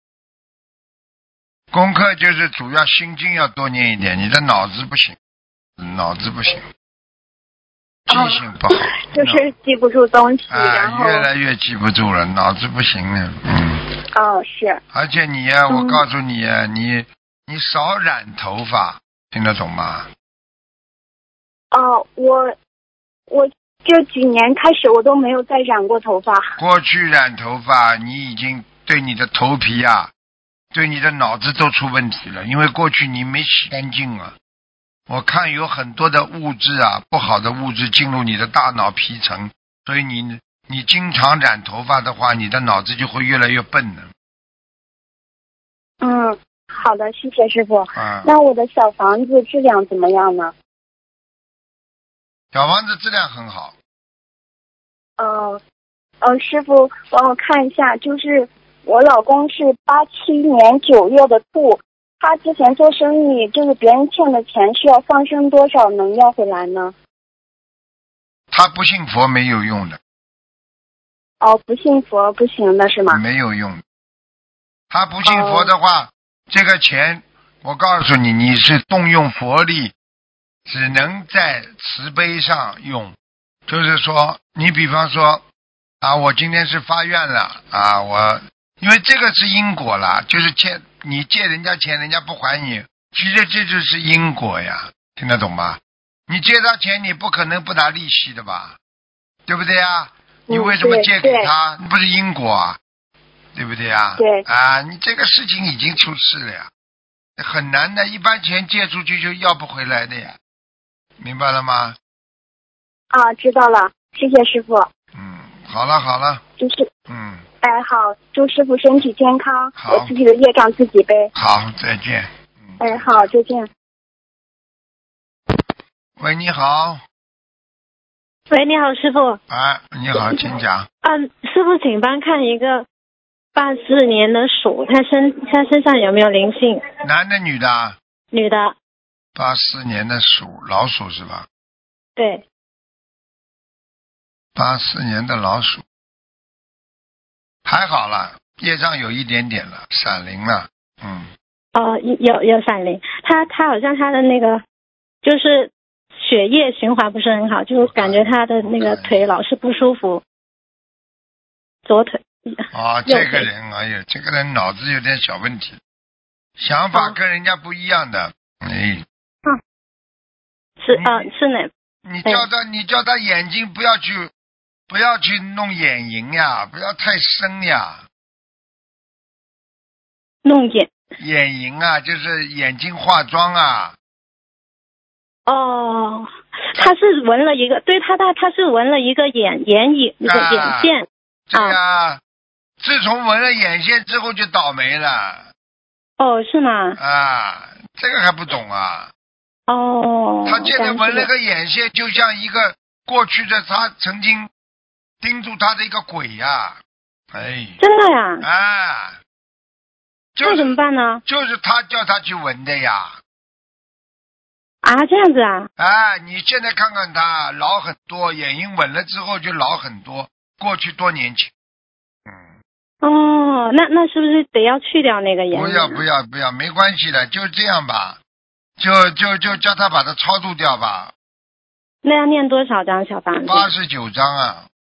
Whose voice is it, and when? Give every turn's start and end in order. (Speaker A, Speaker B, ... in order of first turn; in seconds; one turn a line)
Speaker A: 1.7-5.2
Speaker A: 5.8-6.7
Speaker A: 8.1-9.5
Speaker B: 8.1-11.3
Speaker A: 10.5-13.9
Speaker B: 14.1-14.8
Speaker A: 14.9-20.1
Speaker B: 15.7-16.0
Speaker B: 21.7-22.5
Speaker B: 23.3-26.6
Speaker A: 26.6-30.1
Speaker A: 30.7-34.3
Speaker A: 35.1-44.1
Speaker B: 46.0-50.5
Speaker A: 47.9-48.3
Speaker A: 52.5-53.7
Speaker B: 55.2-55.6
Speaker B: 56.2-66.9
Speaker A: 68.5-70.0
Speaker B: 71.4-73.2
Speaker A: 73.1-73.8
Speaker A: 74.9-79.9
Speaker B: 75.2-75.7
Speaker A: 80.7-83.2
Speaker A: 83.7-85.4
Speaker A: 86.0-98.8
Speaker A: 99.5-102.8
Speaker B: 100.5-101.5
Speaker A: 103.5-106.7
Speaker B: 104.2-104.4
Speaker A: 107.4-110.4
Speaker A: 111.2-112.0
Speaker B: 113.1-114.9
Speaker A: 115.1-116.4
Speaker B: 116.6-116.9
Speaker A: 117.1-117.4
Speaker B: 117.6-121.3
Speaker A: 119.8-120.1
Speaker A: 121.3-123.3
Speaker B: 122.8-123.7
Speaker A: 126.2-127.0
Speaker C: 128.5-129.4
Speaker A: 129.5-130.9
Speaker C: 131.0-132.8
Speaker C: 133.5-136.8
Speaker A: 137.0-138.0
Speaker C: 138.3-138.7
Speaker A: 139.3-141.5
Speaker C: 142.2-142.4
Speaker A: 144.6-145.8
Speaker A: 147.7-151.3
Speaker C: 151.7-154.6
Speaker C: 155.2-160.2
Speaker A: 157.8-159.3
Speaker C: 161.8-163.5
Speaker A: 162.7-165.8
Speaker A: 166.6-169.0
Speaker C: 170.8-171.7
Speaker A: 170.9-171.2
Speaker A: 172.1-174.3
Speaker A: 174.9-178.0
Speaker C: 180.4-180.9
Speaker A: 181.2-183.9
Speaker C: 185.5-191.8
Speaker A: 190.2-190.9
Speaker A: 191.5-192.2
Speaker A: 192.8-195.5
Speaker C: 196.2-197.0
Speaker A: 197.0-199.1
Speaker C: 199.7-201.3
Speaker A: 200.4-204.5
Speaker A: 205.2-206.8
Speaker A: 207.3-207.8
Speaker C: 207.8-208.4
Speaker A: 208.4-209.2
Speaker A: 210.3-210.7
Speaker C: 210.4-211.2
Speaker A: 211.2-213.2
Speaker C: 214.8-215.7
Speaker A: 215.8-221.5
Speaker C: 223.0-226.0
Speaker A: 225.5-228.2
Speaker A: 228.8-231.1
Speaker C: 232.0-233.7
Speaker A: 233.4-234.7